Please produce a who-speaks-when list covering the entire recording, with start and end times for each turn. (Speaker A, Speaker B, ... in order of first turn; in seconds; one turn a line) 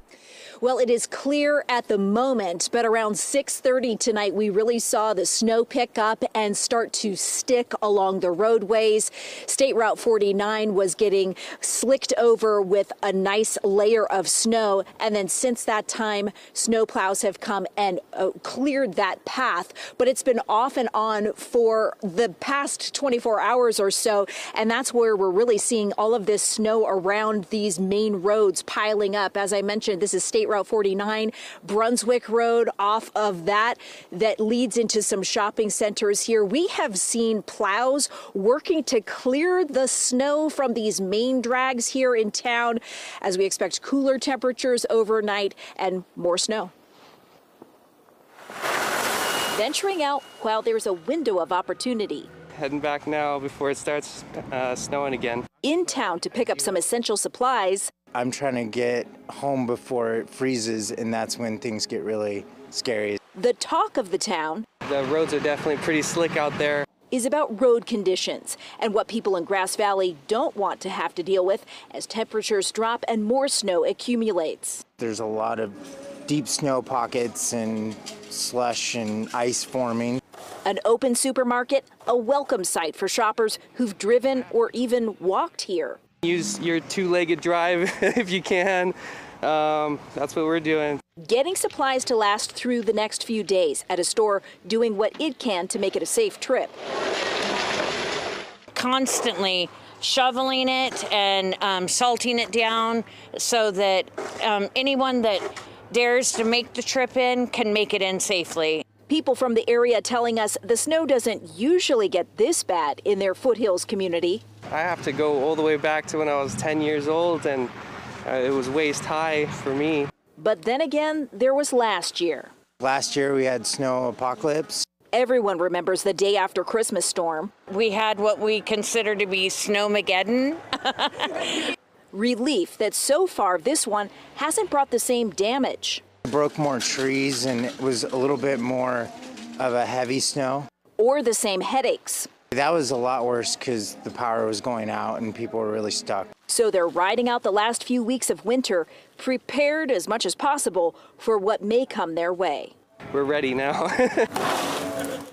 Speaker A: 0.6-46.7
Speaker A: 49.5-52.3
Speaker B: 52.6-55.4
Speaker A: 55.6-57.9
Speaker C: 58.1-63.2
Speaker A: 63.3-64.7
Speaker B: 64.9-66.8
Speaker A: 67.1-74.8
Speaker C: 75.0-80.2
Speaker A: 80.7-86.0
Speaker B: 86.2-88.9
Speaker B: 89.5-91.0
Speaker A: 91.2-96.7
Speaker D: 98.7-108.8
Speaker A: 109.1-114.4
Speaker B: 114.7-117.7
Speaker B: 118.3-120.0
Speaker A: 120.4-122.5
Speaker C: 122.8-124.8
Speaker A: 125.1-127.6
Speaker D: 127.7-131.4
Speaker A: 132.1-136.0
Speaker C: 136.2-140.7
Speaker A: 141.0-142.3
Speaker C: 142.5-146.3
Speaker A: 146.5-152.7
Speaker B: 153.1-153.8